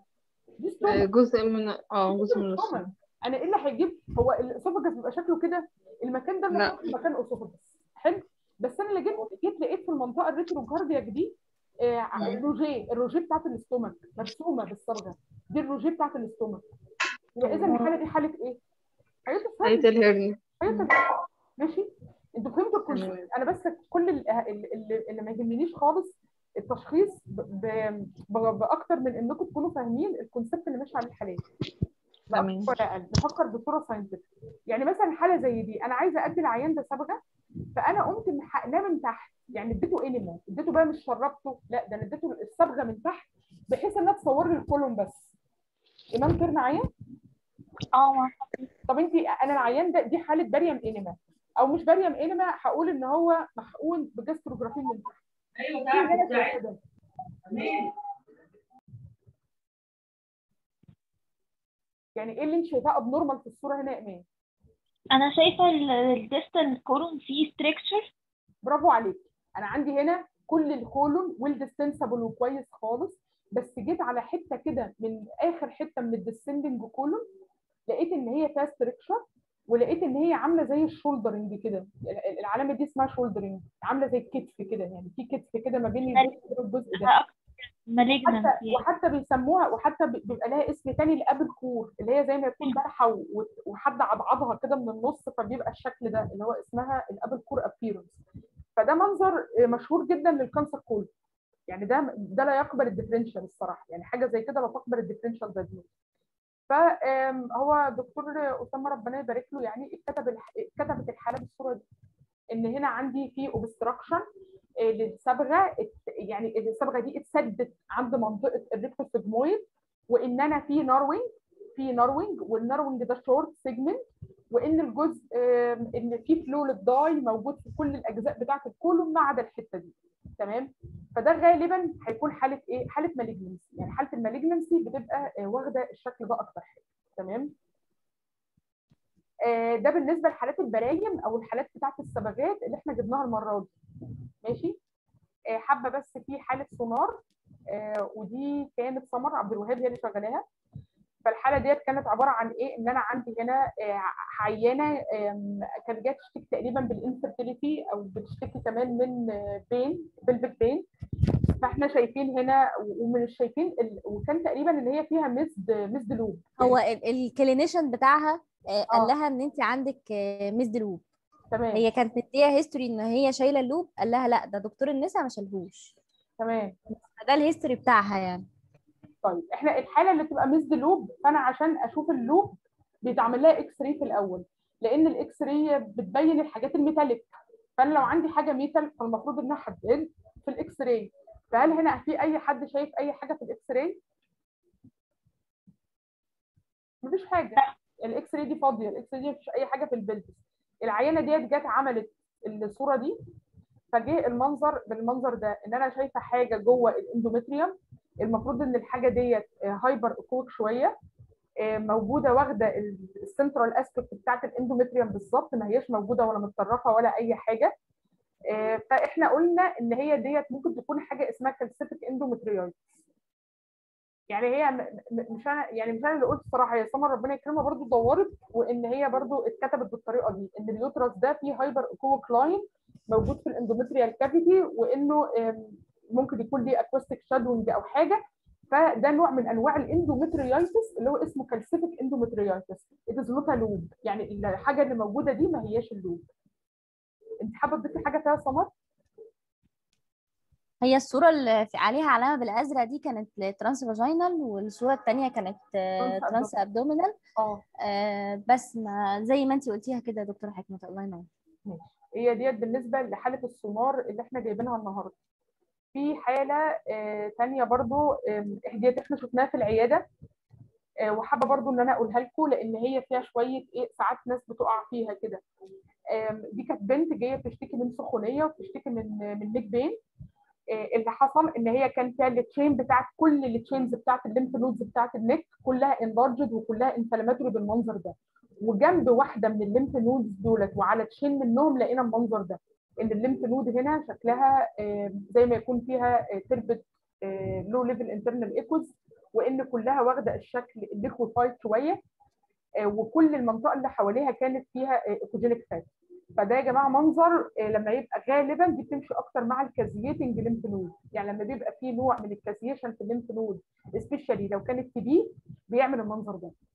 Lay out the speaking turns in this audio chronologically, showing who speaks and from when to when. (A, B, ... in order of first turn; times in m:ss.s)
0:00.6-0:01.1 A
0:00.9-0:02.9 B
0:02.1-0:16.6 A
0:06.5-0:06.9 B
0:17.4-0:18.6 A
0:17.6-0:17.9 C
0:19.3-0:19.9 A
0:19.6-0:20.4 B
0:20.6-0:31.4 A
0:32.3-0:32.7 B
0:32.3-0:37.2 A
0:37.8-0:45.3 A
0:46.2-0:46.9 A
0:48.0-0:48.3 D
0:48.9-0:55.2 A
0:55.9-0:56.8 A
1:02.2-1:04.2 A
1:05.2-1:08.1 D
1:08.6-1:17.2 A
1:17.9-1:19.2 A
1:19.7-1:27.1 A
1:27.9-1:28.8 D
1:28.2-1:38.2 A
1:38.8-1:41.1 A
1:41.7-1:45.9 A
1:46.7-1:51.8 A
1:52.5-1:54.2 A
1:54.8-2:17.5 A
2:19.5-2:23.7 A
2:24.4-2:24.8 A
2:25.5-2:30.4 A
2:31.2-2:40.8 A
2:41.6-2:46.8 A
2:46.6-2:51.0 C
2:51.5-2:51.9 A
2:51.7-2:55.9 C
2:56.4-2:56.8 A
2:57.0-2:58.5 C
2:59.2-3:14.0 A
3:17.0-3:23.2 A
3:23.9-3:30.9 A
3:31.6-3:37.7 A
3:38.5-3:43.0 A
3:44.3-3:58.2 A
3:58.7-4:06.2 A
4:07.4-4:08.7 A
4:10.8-4:17.2 C
4:16.0-4:16.5 A
4:17.4-4:17.6 A
4:17.8-4:21.3 C
4:21.7-4:25.1 A
4:25.9-4:30.0 A
4:31.1-4:35.4 A
4:36.1-4:40.0 A
4:40.7-5:02.0 A
5:02.8-5:16.5 A